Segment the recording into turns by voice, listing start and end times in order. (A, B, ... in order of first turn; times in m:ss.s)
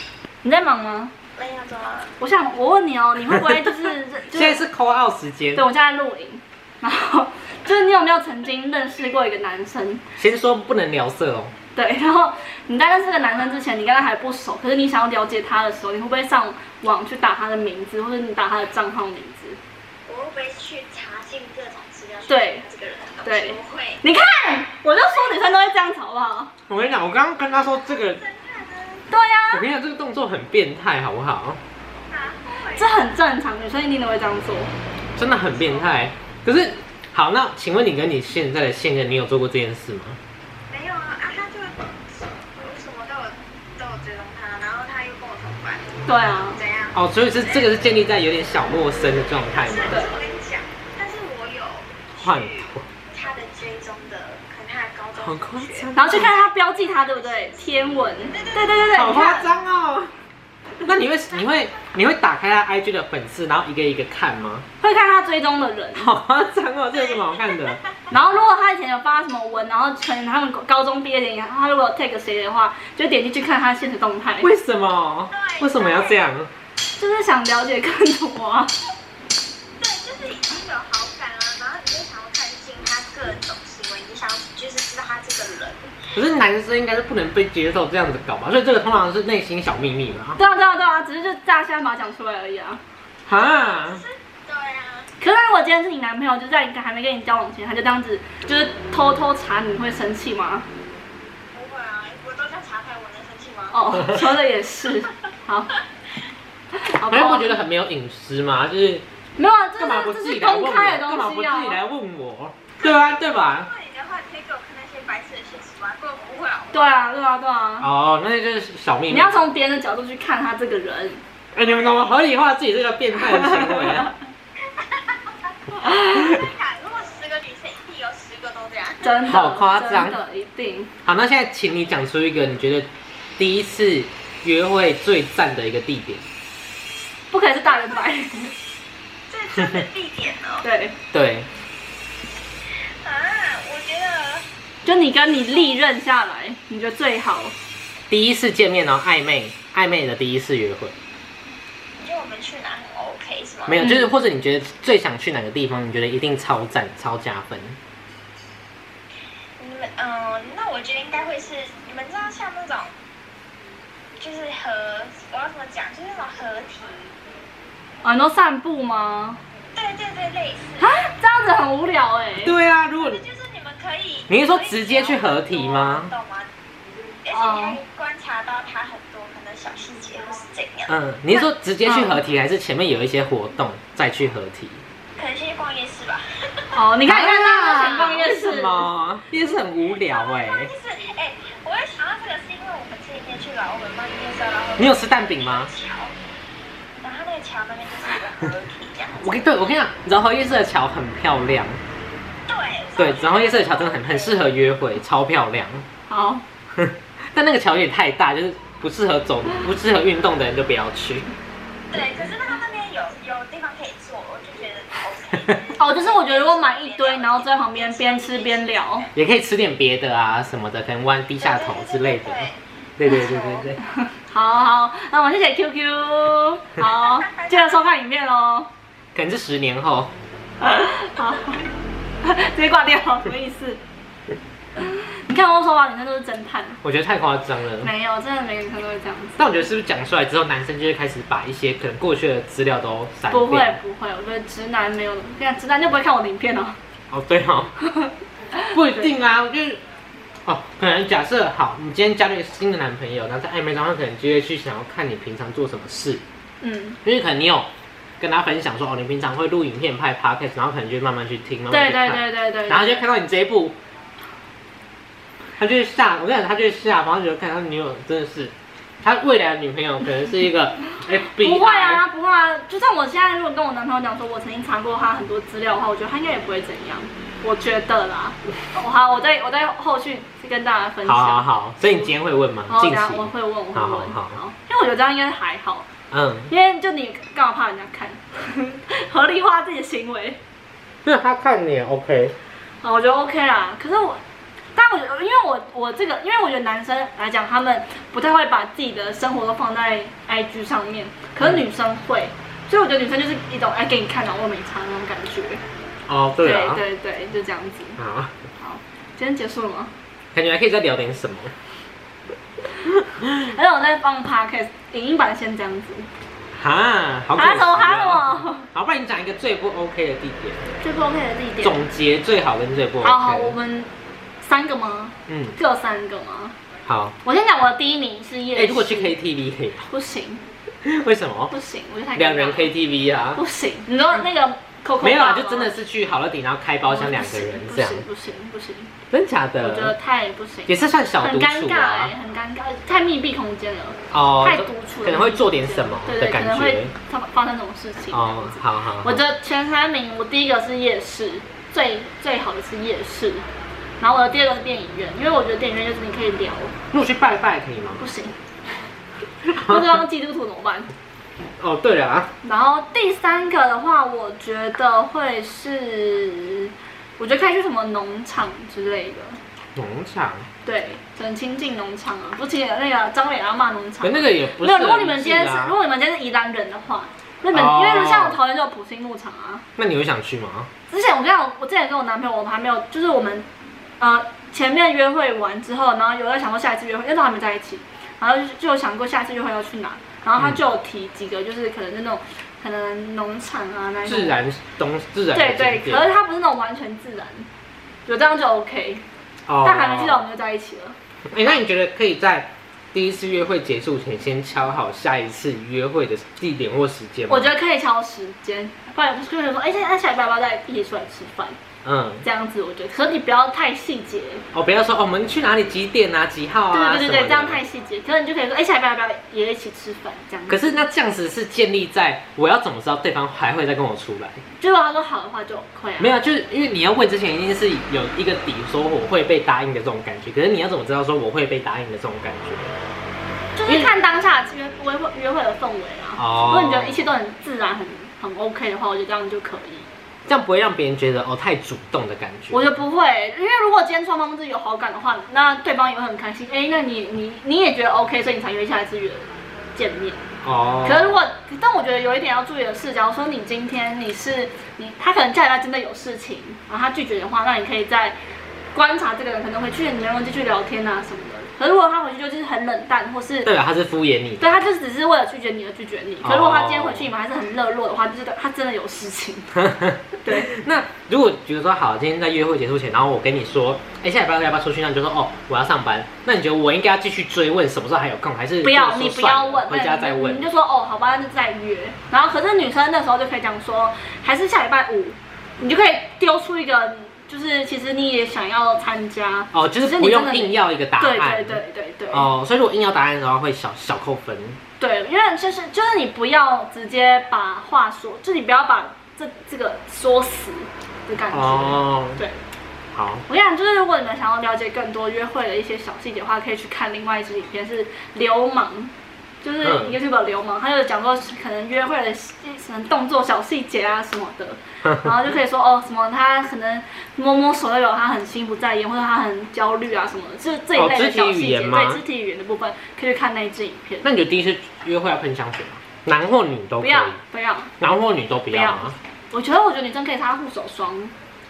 0:00.4-0:01.1 A
0:01.4-0:02.1 B
0:02.2-0:04.6 A
0:04.3-0:05.6 C
0:05.6-0:10.0 A
0:10.2-0:11.5 C
0:11.8-0:19.6 A
0:20.1-0:24.0 B
0:22.3-0:22.6 A
0:23.2-0:26.5 A
0:26.7-0:28.2 C
0:27.6-0:29.1 B
0:29.1-0:29.7 A
0:29.5-0:31.6 C
0:32.1-0:33.0 B
0:32.6-0:34.7 A
0:35.2-0:40.2 C
0:40.7-0:47.7 B
0:46.1-0:46.6 A
0:46.9-0:50.0 C
0:49.2-0:59.6 B
0:52.2-0:52.9 C
0:55.2-0:56.4 C
0:55.9-0:59.4 A
0:59.0-1:00.1 C
1:00.8-1:04.7 C
1:04.8-1:06.1 A
1:06.0-1:07.8 C
1:06.9-1:07.8 B
1:08.1-1:14.5 A
1:14.4-1:16.5 C
1:15.3-1:16.3 B
1:17.0-1:18.7 A
1:19.8-1:26.0 B
1:26.1-1:30.4 C
1:30.4-1:32.8 A
1:33.3-1:34.0 C
1:33.3-1:35.1 B
1:35.2-1:40.7 A
1:41.5-1:44.0 B
1:43.7-1:45.8 A
1:46.9-1:47.6 A
1:47.0-1:49.0 C
1:49.4-1:51.8 A
1:49.8-1:53.7 C
1:52.8-1:56.9 B
1:56.7-1:57.9 A
1:57.8-1:59.4 C
1:59.1-2:01.2 A
2:01.5-2:04.1 C
2:03.3-2:04.1 A
2:04.7-2:05.2 B
2:05.7-2:09.2 B
2:05.8-2:06.3 A
2:06.2-2:06.4 C
2:09.0-2:10.9 A
2:09.2-2:10.2 C
2:11.0-2:16.2 C
2:17.3-2:18.5 A
2:17.7-2:18.5 B
2:19.3-2:20.7 B
2:19.6-2:19.8 C
2:20.6-2:21.0 A
2:21.1-2:21.5 C
2:23.0-2:24.5 B
2:24.8-2:27.6 A
2:25.3-2:25.8 B
2:28.1-2:31.0 C
2:32.0-2:33.8 B
2:33.7-2:37.8 C
2:33.8-2:34.1 A
2:39.6-2:42.9 B
2:44.2-2:47.0 B
2:48.0-2:49.4 A
2:49.7-2:51.0 B
2:50.8-2:52.5 A
2:52.4-2:53.2 C
2:53.0-2:56.5 B
2:54.3-2:56.1 C
2:57.2-3:01.5 B
2:57.3-2:57.8 A
3:00.9-3:04.8 C
3:01.8-3:02.2 A
3:05.2-3:06.8 B
3:06.7-3:08.9 A
3:07.1-3:10.7 C
3:07.7-3:08.6 B
3:10.0-3:16.2 B
3:14.8-3:15.7 C
3:17.0-3:19.4 B
3:19.2-3:21.8 C
3:22.5-3:24.4 B
3:23.0-3:25.9 C
3:26.1-3:26.4 A
3:26.8-3:31.3 C
3:31.9-3:39.1 B
3:35.8-3:39.1 A
3:39.2-3:43.8 C
3:41.4-3:43.7 B
3:44.0-3:48.7 A
3:46.8-3:48.0 B
3:49.2-3:50.1 C
3:50.6-3:51.7 A
3:52.2-3:53.8 A
3:54.8-3:56.8 A
3:56.8-3:57.9 C
3:57.8-3:59.5 A
3:59.4-4:03.8 C
4:03.3-4:06.8 A
4:07.1-4:07.8 C
4:07.9-4:09.1 A
4:08.7-4:09.8 C
4:10.5-4:16.2 C
4:16.6-4:17.0 A
4:17.0-4:17.7 C
4:18.2-4:23.8 C
4:21.7-4:23.0 A
4:25.6-4:32.0 C
4:31.3-4:42.1 A
4:41.0-4:44.4 C
4:42.7-4:45.9 A
4:46.1-4:46.5 C
4:46.5-4:50.4 A
4:51.0-4:52.4 C
4:52.8-4:54.2 A
4:54.8-5:05.6 A
5:06.1-5:06.8 C
5:06.4-5:08.0 A
5:08.0-5:08.3 C
5:08.6-5:09.9 A
5:10.3-5:11.5 C
5:13.0-5:13.5 C
5:13.4-5:16.1 A
5:16.5-5:20.7 C
5:17.4-5:18.7 A
5:20.8-5:21.8 A
5:21.6-5:23.6 C
5:23.0-5:26.6 A
5:25.3-5:25.6 C
5:26.9-5:27.2 C
5:27.2-5:29.2 A
5:28.6-5:29.9 C
5:29.9-5:30.4 A
5:30.8-5:31.5 C
5:31.5-5:32.7 A
5:32.2-5:33.4 C
5:33.3-5:35.8 A
5:35.0-5:38.0 C
5:36.8-5:39.0 A
5:39.1-5:39.9 C
5:39.6-5:53.5 A
5:40.7-5:42.1 C
5:44.1-5:46.9 C
5:48.1-5:49.2 C
5:54.0-5:56.8 A
5:56.9-5:58.1 C
5:58.0-5:58.4 A
5:59.5-6:00.9 A
5:59.5-5:59.8 C
6:01.6-6:02.3 C
6:02.4-6:09.4 A
6:09.8-6:10.5 C
6:10.6-6:19.6 A
6:14.0-6:15.8 C
6:17.5-6:18.4 C
6:19.8-6:20.7 C
6:20.9-6:23.5 A
6:24.0-6:34.4 A
6:34.0-6:36.1 C
6:35.3-6:37.5 A
6:38.1-6:39.0 A
6:39.5-6:40.2 C
6:39.6-6:41.0 A
6:41.3-6:47.5 C
6:47.3-6:51.6 A
6:51.8-6:52.3 C
6:52.2-6:54.5 A
6:54.5-6:57.6 C
6:56.7-7:00.8 A
7:00.5-7:04.4 C
7:04.6-7:06.2 A
7:06.0-7:12.8 C
7:13.6-7:19.9 A
7:16.2-7:17.1 C
7:20.3-7:22.8 C
7:22.5-7:30.3 A
7:30.4-7:31.2 C
7:30.8-7:38.2 A
7:38.7-7:43.5 A
7:43.4-7:44.6 C
7:44.4-7:49.6 A
7:46.2-7:47.1 C
7:49.6-8:00.5 C
7:50.2-7:50.5 A
7:58.6-8:12.3 A
8:09.5-8:14.6 C
8:14.8-8:22.4 A
8:21.3-8:22.2 C
8:23.0-8:23.2 C
8:23.3-8:44.0 A
8:29.6-8:30.0 C
8:40.8-8:42.0 C
8:44.0-8:47.2 C
8:46.8-8:47.7 A
8:47.8-8:49.0 C
8:48.5-8:51.1 A